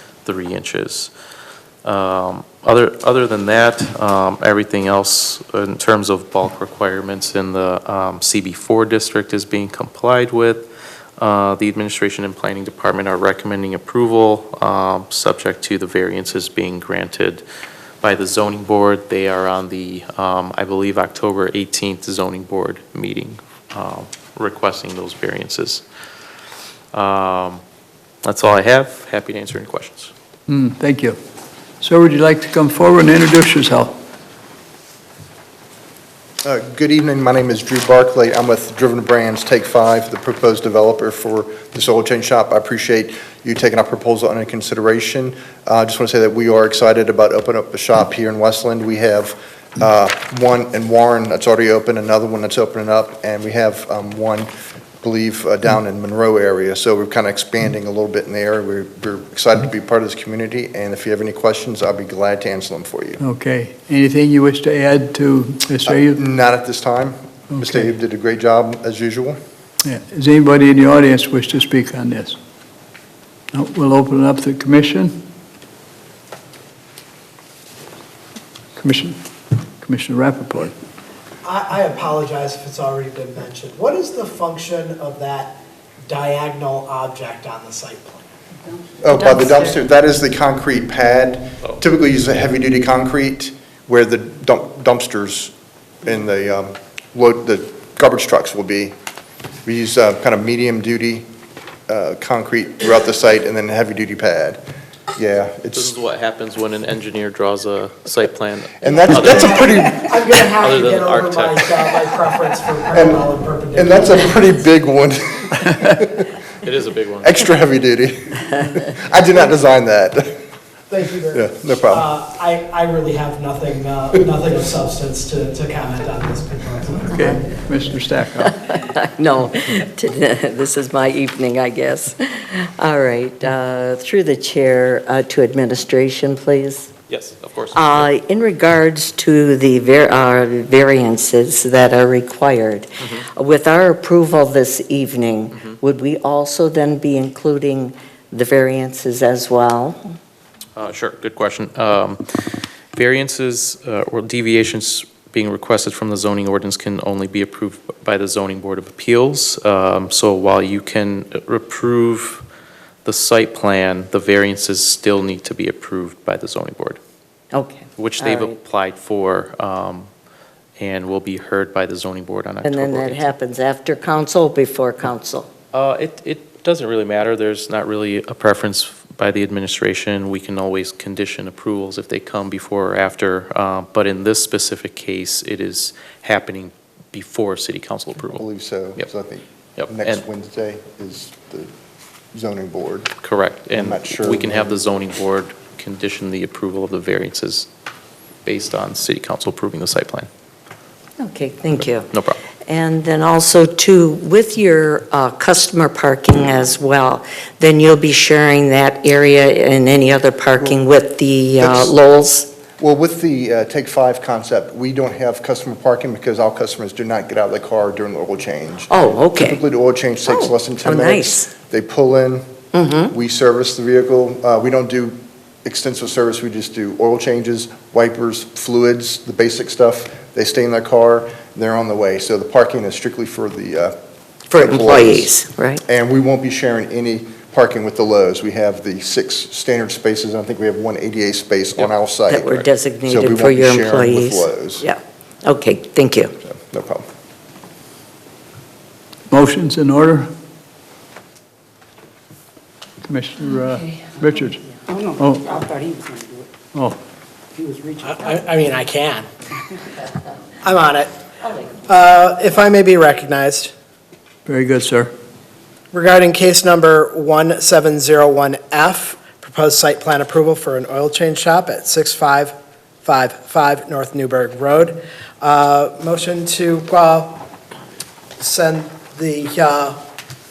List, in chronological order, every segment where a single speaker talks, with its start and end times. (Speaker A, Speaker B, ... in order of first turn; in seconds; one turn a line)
Speaker A: 0.2-1.1
Speaker A: 1.8-17.4
Speaker A: 18.0-25.9
Speaker A: 26.9-27.6
Speaker A: 28.2-30.1
Speaker B: 30.5-31.2
Speaker B: 31.8-34.0
Speaker C: 36.4-54.5
Speaker C: 55.0-63.2
Speaker B: 63.2-66.2
Speaker C: 65.9-69.4
Speaker B: 67.5-67.9
Speaker B: 69.8-72.4
Speaker B: 73.5-75.2
Speaker B: 78.8-79.2
Speaker B: 79.8-80.8
Speaker D: 81.4-88.3
Speaker C: 89.0-99.0
Speaker E: 89.1-89.6
Speaker C: 99.7-101.3
Speaker C: 101.9-104.6
Speaker C: 105.2-105.9
Speaker A: 105.7-109.8
Speaker C: 108.8-110.3
Speaker D: 109.2-114.2
Speaker A: 110.6-111.9
Speaker C: 112.9-116.3
Speaker A: 116.6-117.4
Speaker C: 117.2-120.4
Speaker D: 120.9-127.1
Speaker C: 121.3-122.1
Speaker B: 127.1-128.6
Speaker E: 128.4-136.9
Speaker A: 137.1-138.1
Speaker E: 137.7-150.1
Speaker A: 150.8-162.4
Speaker A: 163.1-167.0
Speaker E: 167.5-168.6
Speaker A: 168.0-170.1
Speaker A: 170.8-173.3
Speaker E: 172.6-175.5
Speaker A: 175.7-188.4
Speaker C: 188.3-191.7
Speaker A: 189.8-190.2
Speaker C: 192.3-193.1
Speaker A: 193.2-197.7
Speaker C: 193.7-194.8
Speaker A: 198.4-200.3
Speaker E: 201.2-202.1
Speaker A: 202.1-202.4
Speaker E: 202.7-212.5
Speaker C: 211.6-211.9
Speaker C: 212.8-222.5
Speaker E: 218.9-219.6
Speaker E: 220.3-221.5
Speaker E: 222.7-223.1
Speaker C: 223.1-234.0
Speaker E: 234.5-235.8
Speaker C: 234.5-235.3
Speaker C: 235.9-244.8
Speaker E: 242.3-246.3
Speaker C: 246.4-247.1
Speaker B: 249.3-250.3
Speaker B: 253.0-254.6
Speaker F: 254.9-256.5
Speaker B: 255.2-255.5
Speaker F: 257.6-258.6
Speaker D: 258.0-259.3
Speaker D: 260.6-261.1
Speaker D: 261.9-263.7
Speaker B: 264.5-265.1
Speaker D: 265.9-277.4
Speaker D: 278.4-280.0